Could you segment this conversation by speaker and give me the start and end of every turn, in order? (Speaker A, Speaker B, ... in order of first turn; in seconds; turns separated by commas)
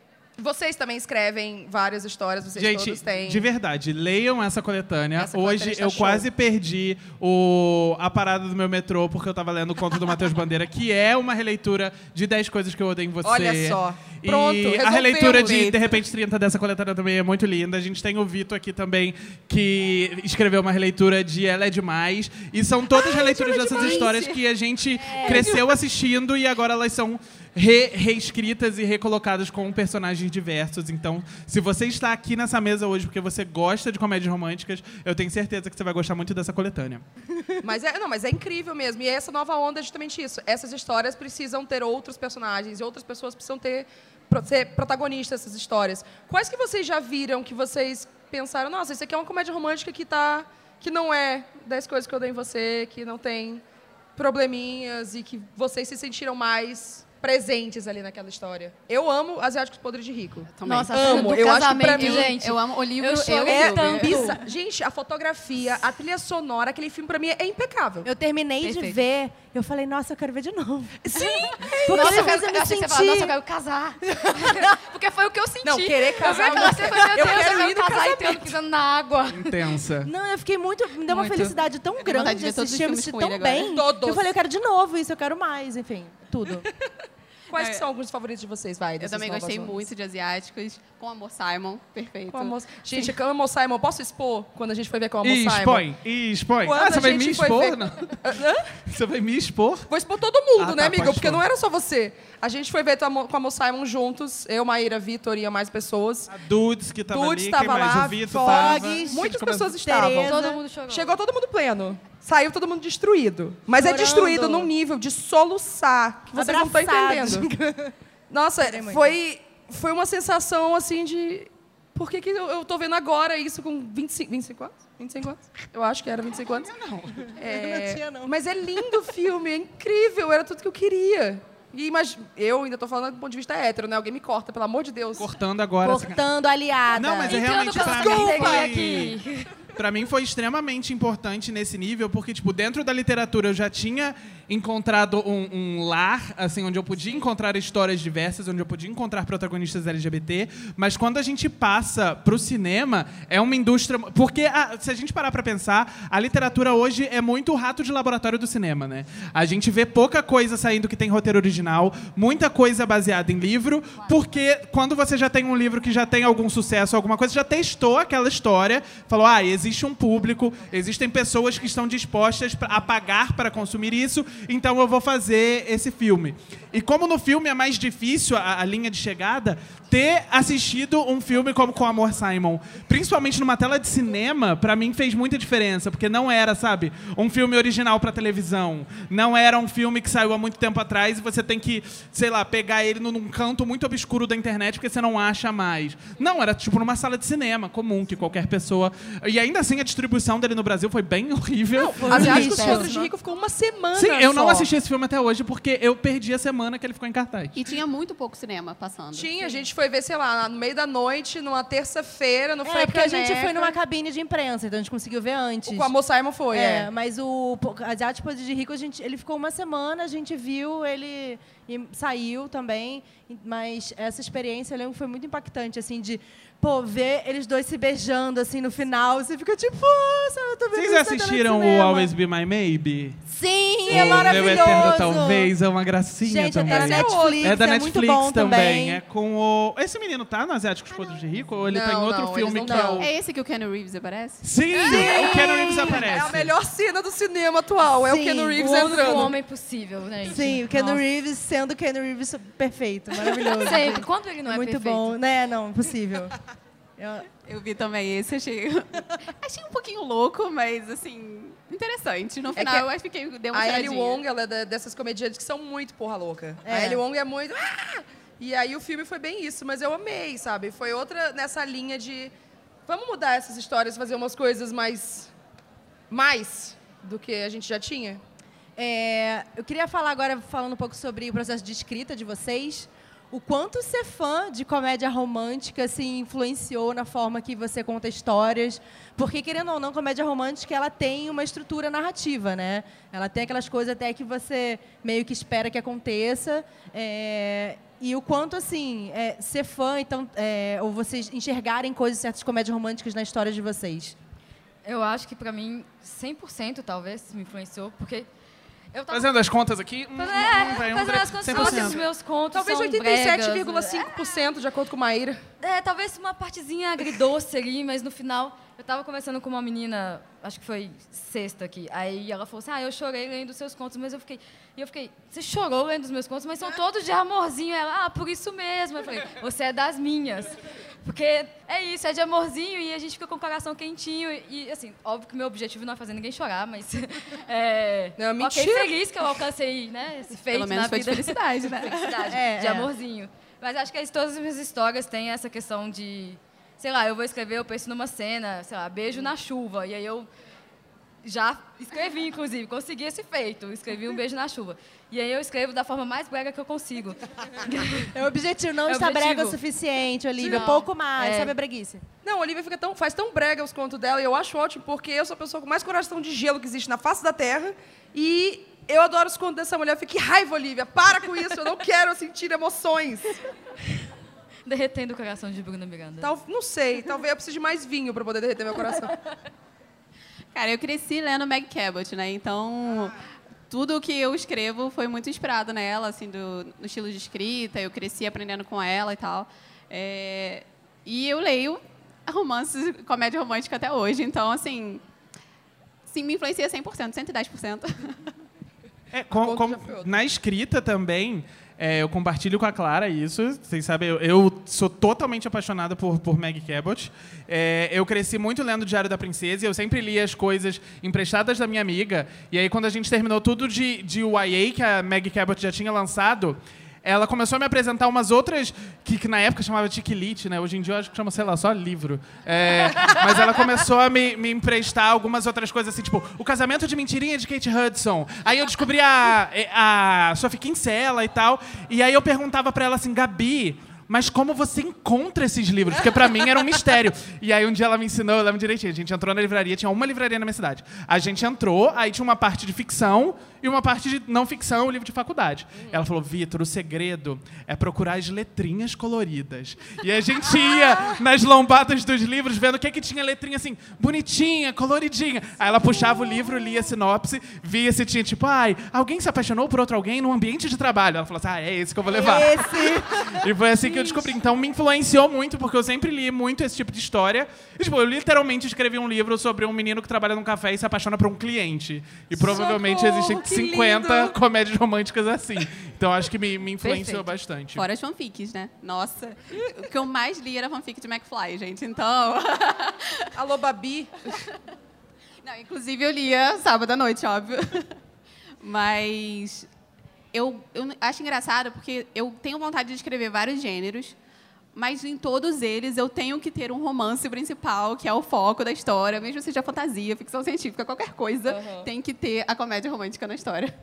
Speaker A: 0.4-3.5, Speaker B: 2.5-37.0, Speaker A: 5.2-6.3, Speaker A: 13.2-16.0, Speaker A: 22.9-24.3, Speaker C: 23.8-24.0, Speaker A: 25.1-25.7, Speaker A: 37.6-53.6, Speaker A: 54.2-62.4, Speaker C: 60.5-64.3, Speaker D: 60.6-64.4, Speaker A: 63.5-68.1, Speaker E: 68.0-71.0, Speaker D: 68.6-69.0, Speaker A: 71.0-72.4, Speaker D: 71.2-79.8, Speaker E: 71.6-73.4, Speaker E: 74.4-74.7, Speaker A: 75.6-78.5, Speaker E: 76.2-77.5, Speaker B: 79.3-80.1, Speaker E: 80.0-86.7, Speaker D: 81.1-81.5, Speaker C: 82.0-83.8, Speaker A: 83.7-84.4, Speaker A: 87.5-89.9, Speaker C: 87.5-87.9, Speaker C: 89.0-93.1, Speaker A: 92.3-95.9, Speaker B: 95.2-98.2, Speaker A: 96.6-98.7, Speaker B: 98.9-99.9, Speaker A: 99.9-106.3, Speaker B: 100.6-101.4, Speaker B: 106.3-109.7, Speaker A: 107.1-117.5, Speaker E: 108.3-110.6, Speaker D: 110.2-111.2, Speaker E: 113.8-114.7, Speaker E: 116.3-117.9, Speaker A: 118.3-126.8, Speaker E: 118.6-119.2, Speaker B: 126.8-127.3, Speaker E: 127.4-128.8, Speaker A: 127.4-135.3, Speaker B: 135.2-136.2, Speaker E: 135.8-137.4, Speaker B: 136.9-139.2, Speaker D: 137.3-139.5, Speaker A: 137.7-138.8, Speaker B: 139.8-202.9, Speaker A: 201.8-204.7, Speaker E: 202.0-203.1, Speaker B: 203.9-207.6, Speaker C: 207.6-209.7, Speaker A: 209.1-213.8, Speaker E: 212.6-215.9, Speaker A: 215.7-216.9, Speaker E: 216.5-232.1, Speaker B: 230.7-233.2, Speaker E: 233.3-235.5, Speaker B: 233.9-243.1, Speaker A: 233.9-235.0, Speaker E: 236.2-239.0, Speaker A: 236.7-237.6, Speaker A: 241.7-243.0, Speaker C: 243.0-244.4, Speaker B: 244.4-246.5, Speaker A: 244.7-249.3, Speaker E: 244.9-245.2, Speaker E: 248.0-249.3, Speaker D: 248.6-251.0, Speaker E: 250.2-256.3, Speaker D: 253.5-255.2, Speaker E: 257.0-257.3, Speaker C: 257.4-264.2, Speaker A: 262.6-262.9, Speaker A: 263.5-272.3, Speaker E: 266.6-267.0, Speaker A: 272.9-275.3, Speaker A: 276.1-278.2, Speaker E: 278.8-304.2, Speaker D: 304.9-308.3, Speaker D: 308.9-309.3, Speaker B: 309.1-312.0, Speaker D: 310.1-314.1, Speaker A: 311.5-312.0, Speaker A: 312.5-315.4, Speaker D: 315.6-350.3, Speaker A: 338.2-338.9, Speaker C: 340.5-342.4, Speaker E: 342.3-342.9, Speaker D: 351.2-358.1, Speaker E: 358.0-362.0, Speaker D: 358.9-359.6, Speaker A: 360.4-360.8, Speaker C: 360.5-360.9, Speaker D: 361.2-361.5, Speaker A: 362.2-373.4, Speaker D: 374.7-376.3, Speaker A: 376.2-379.1, Speaker C: 380.5-395.0, Speaker C: 396.1-398.2, Speaker B: 399.1-477.9, Speaker A: 399.3-400.2, Speaker A: 445.8-446.0, Speaker E: 462.1-463.4, Speaker A: 472.4-474.4, Speaker D: 476.8-477.3, Speaker C: 477.8-483.3, Speaker A: 483.4-484.4, Speaker C: 485.4-487.9, Speaker C: 488.6-489.7, Speaker C: 490.3-494.2, Speaker C: 494.8-503.7, Speaker A: 501.5-501.9